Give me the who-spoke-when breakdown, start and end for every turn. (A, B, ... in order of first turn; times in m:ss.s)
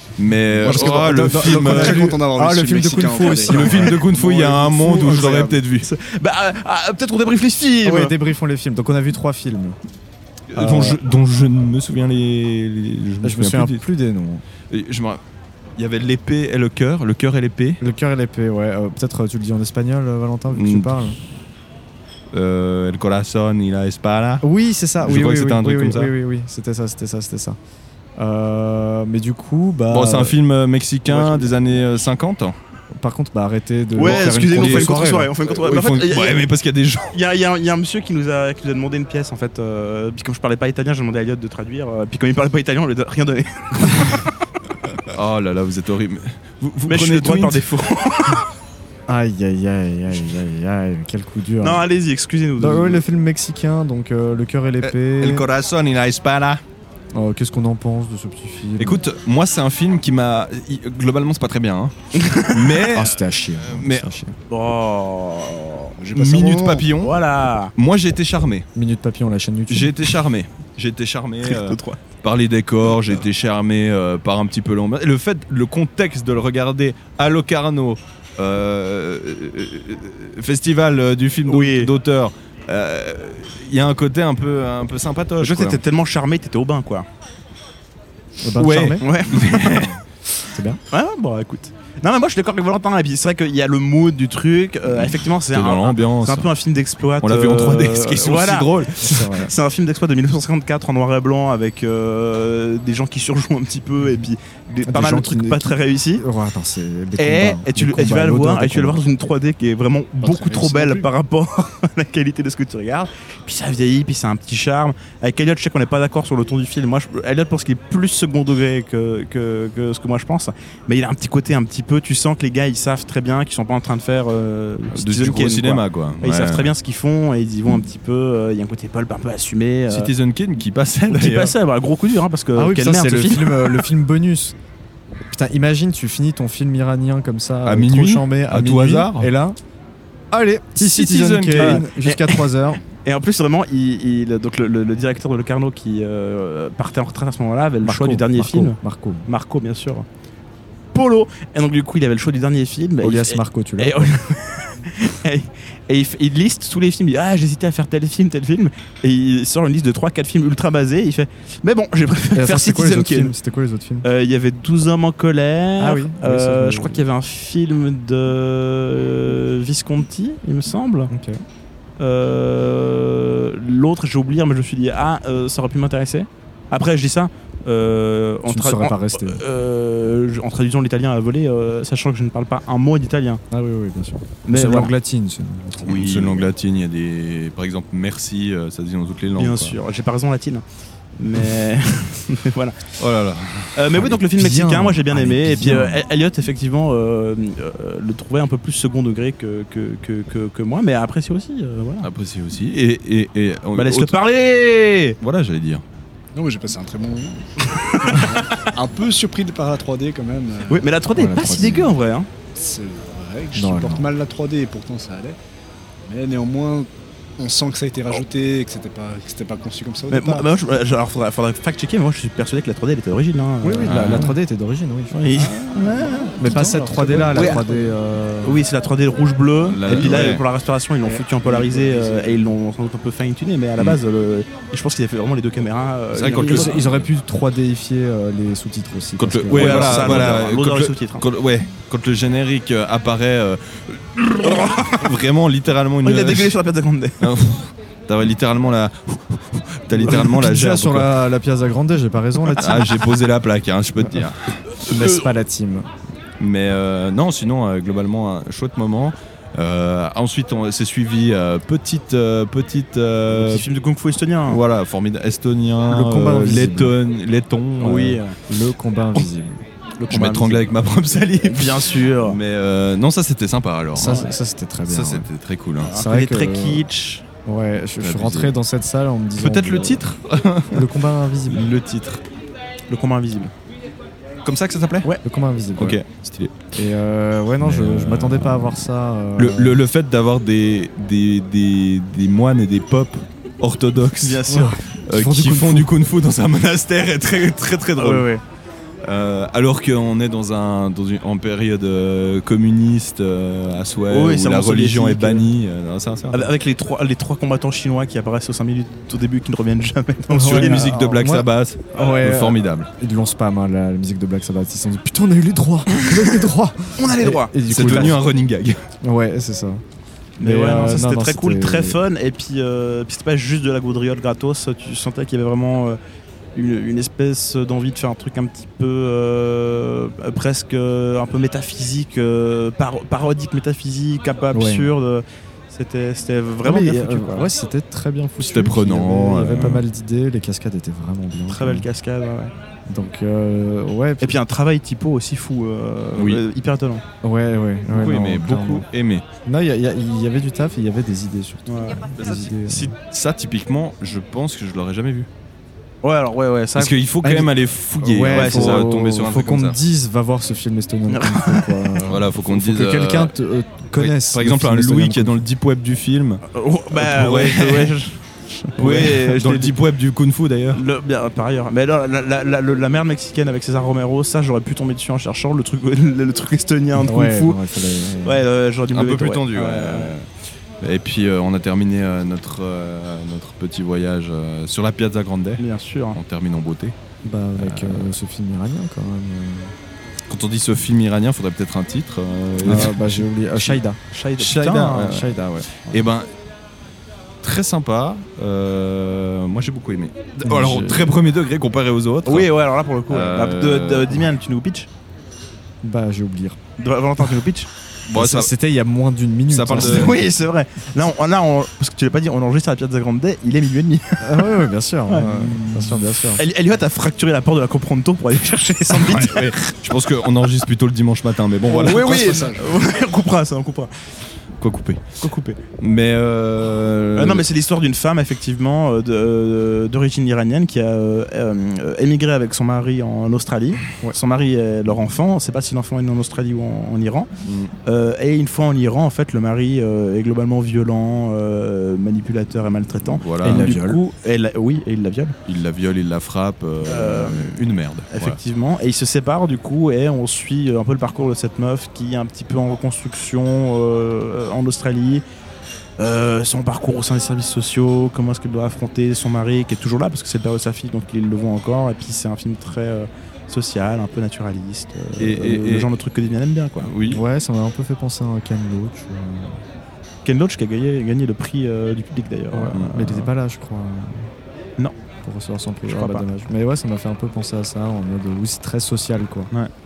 0:00.2-0:02.1 A
0:00.6-0:04.0 B
0:00.6-0:04.7 C
0:03.4-0:05.9 A
0:04.1-0:08.1 D
0:07.8-0:09.8 B
0:10.5-0:13.8 A
0:10.6-0:11.0 B
0:13.2-0:14.4 B
0:14.7-0:15.2 A
0:15.8-0:17.8 A
0:17.8-0:21.2 B
0:20.5-0:21.0 A
0:22.3-0:24.4 A
0:24.4-0:27.6 B
0:25.0-0:26.1 A
0:28.2-0:30.4 B
0:29.9-0:32.6 A
0:31.1-0:31.8 D
0:33.0-0:35.3 B
0:34.0-0:36.5 D
0:34.0-0:37.1 A
0:37.1-0:44.3 D
0:45.1-0:47.6 A
0:46.9-0:48.4 D
0:49.1-0:51.8 B
0:51.6-0:53.0 D
0:52.6-0:55.5 B
0:54.8-0:56.6 A
0:57.1-0:59.0 B
0:58.8-1:04.1 A
1:02.2-1:02.8 D
1:02.9-1:04.4 B
1:04.5-1:05.9 D
1:06.0-1:06.8 C
1:06.2-1:07.2 A
1:06.9-1:07.7 D
1:07.8-1:08.7 A
1:08.8-1:10.0 B
1:09.7-1:25.8 A
1:11.4-1:12.0 D
1:21.5-1:21.9 D
1:25.4-1:27.1 D
1:28.4-1:29.1 B
1:28.6-1:30.0 A
1:29.0-1:29.8 D
1:30.5-1:30.8 B
1:30.9-1:38.9 D
1:34.9-1:36.5 A
1:37.2-1:39.2 A
1:39.0-1:39.5 B
1:39.4-1:46.2 D
1:44.9-1:49.1 B
1:47.2-2:10.1 D
1:50.2-1:51.1 C
2:04.9-2:06.7 A
2:09.9-2:11.6 A
2:11.1-2:13.9 D
2:12.6-2:14.6 B
2:15.3-2:19.6 B
2:17.6-2:19.3 A
2:20.3-2:22.8 B
2:20.8-2:21.8 A
2:21.6-2:30.1 D
2:27.8-2:29.3 B
2:30.9-2:43.3 D
2:33.0-2:34.1 B
2:42.4-2:44.1 B
2:44.0-2:51.1 D
2:45.8-2:47.0 B
2:51.1-2:51.4 B
2:52.0-3:03.4 D
2:58.5-2:59.4 B
3:03.5-3:06.4 B
3:04.5-3:04.9 D
3:05.8-3:09.8 A
3:09.4-3:10.6 D
3:11.2-3:12.8 D
3:13.0-3:14.2 A
3:13.8-3:22.1 D
3:14.3-3:16.0 B
3:22.0-3:24.1 A
3:23.8-3:25.2 D
3:25.2-3:25.8 A
3:26.3-3:30.9 C
3:27.8-3:28.3 D
3:30.7-3:32.3 D
3:31.1-3:32.0 B
3:32.5-3:35.4 C
3:33.6-3:34.1 B
3:36.1-3:40.5 C
3:40.1-3:44.3 D
3:43.6-3:45.5 B
3:43.8-3:44.3 A
3:45.1-3:47.6 D
3:46.4-3:48.6 B
3:46.5-3:47.9 C
3:48.4-3:56.8 D
3:49.6-3:50.4 A
3:49.9-3:50.3 B
3:51.4-3:52.4 C
3:56.1-3:57.1 A
3:56.3-4:00.4 B
3:59.2-4:06.6 A
3:59.5-4:01.2 D
4:04.4-4:05.0 D
4:06.0-4:07.2 D
4:07.2-4:11.1 A
4:10.0-4:13.1 B
4:12.6-4:14.8 A
4:14.8-4:15.9 B
4:16.4-4:23.7 A
4:23.3-4:24.6 D
4:24.5-4:28.2 A
4:25.9-4:27.0 B
4:27.8-4:28.4 D
4:28.5-4:29.6 B
4:30.0-4:30.7 D
4:30.1-4:34.3 A
4:31.4-4:32.4 D
4:33.9-4:35.3 B
4:34.0-4:34.3 D
4:34.9-4:35.9 A
4:35.8-4:37.2 D
4:35.9-4:36.8 B
4:37.4-4:40.0 B
4:38.0-4:38.5 A
4:39.4-4:40.9 A
4:40.7-4:41.7 B
4:41.5-4:42.2 A
4:42.9-4:43.5 D
4:44.4-4:45.1 A
4:45.2-4:46.0 B
4:45.8-4:46.7 A
4:46.8-4:49.8 B
4:47.6-4:48.8 A
4:49.4-4:54.6 A
4:54.2-4:54.7 D
4:54.5-4:55.9 B
4:55.1-4:58.3 A
4:58.0-4:58.4 D
4:59.0-5:06.5 A
5:04.1-5:05.4 D
5:06.3-5:10.9 D
5:10.3-5:18.2 B
5:10.4-5:12.9 A
5:17.0-5:18.2 D
5:17.7-5:18.8 A
5:19.0-5:19.8 B
5:20.4-5:22.0 B
5:20.4-5:26.0 D
5:26.6-5:37.5 D
5:34.5-5:34.9 B
5:36.6-5:41.9 B
5:38.4-5:39.8 A
5:41.5-5:42.5 D
5:42.9-5:44.4 B
5:44.2-5:47.0 D
5:46.2-5:46.4 A
5:47.2-5:48.9 B
5:47.9-5:49.2 A
5:49.4-5:53.0 B
5:51.7-5:52.1 D
5:52.2-5:55.3 A
5:56.0-5:57.0 D
5:56.8-5:59.8 A
5:57.2-6:05.4 B
5:58.3-5:58.8 D
6:01.1-6:01.7 D
6:02.0-6:03.3 A
6:03.9-6:08.0 A
6:06.5-6:09.7 D
6:08.8-6:10.8 A
6:10.7-6:17.6 D
6:17.0-6:18.4 B
6:18.2-6:20.1 D
6:18.9-6:20.2 A
6:20.8-6:27.0 A
6:25.6-6:26.2 D
6:27.2-6:29.7 B
6:27.6-6:28.2 A
6:30.3-6:33.8 A
6:32.6-6:34.0 B
6:34.1-6:35.2 D
6:34.4-6:36.3 A
6:35.0-6:35.7 B
6:37.4-6:42.5 A
6:40.4-6:41.2 B
6:42.3-6:44.9 D
6:43.1-6:44.3 A
6:45.8-6:46.6 B
6:46.8-6:47.7 D
6:48.1-6:48.5 A
6:48.2-6:50.2 B
6:49.5-6:50.2 A
6:49.8-6:59.7 D
6:54.2-6:56.4 B
6:58.9-7:02.4 A
7:01.7-7:02.7 C
7:01.7-7:03.9 D
7:04.6-7:05.2 A
7:05.2-7:05.6 D
7:05.8-7:07.4 A
7:07.2-7:17.3 D
7:17.4-7:17.7 A
7:17.8-7:25.4 D
7:23.1-7:23.7 A
7:23.4-7:24.0 B
7:25.5-7:28.4 A
7:26.8-7:27.6 D
7:28.1-7:35.2 D
7:36.0-7:46.9 D
7:45.2-7:45.9 A
7:46.8-7:47.2 A
7:47.1-7:49.6 B
7:50.2-7:53.2 D
7:52.5-7:54.3 B
7:52.7-7:53.3 A
7:55.2-7:59.5 B
7:55.9-7:56.2 D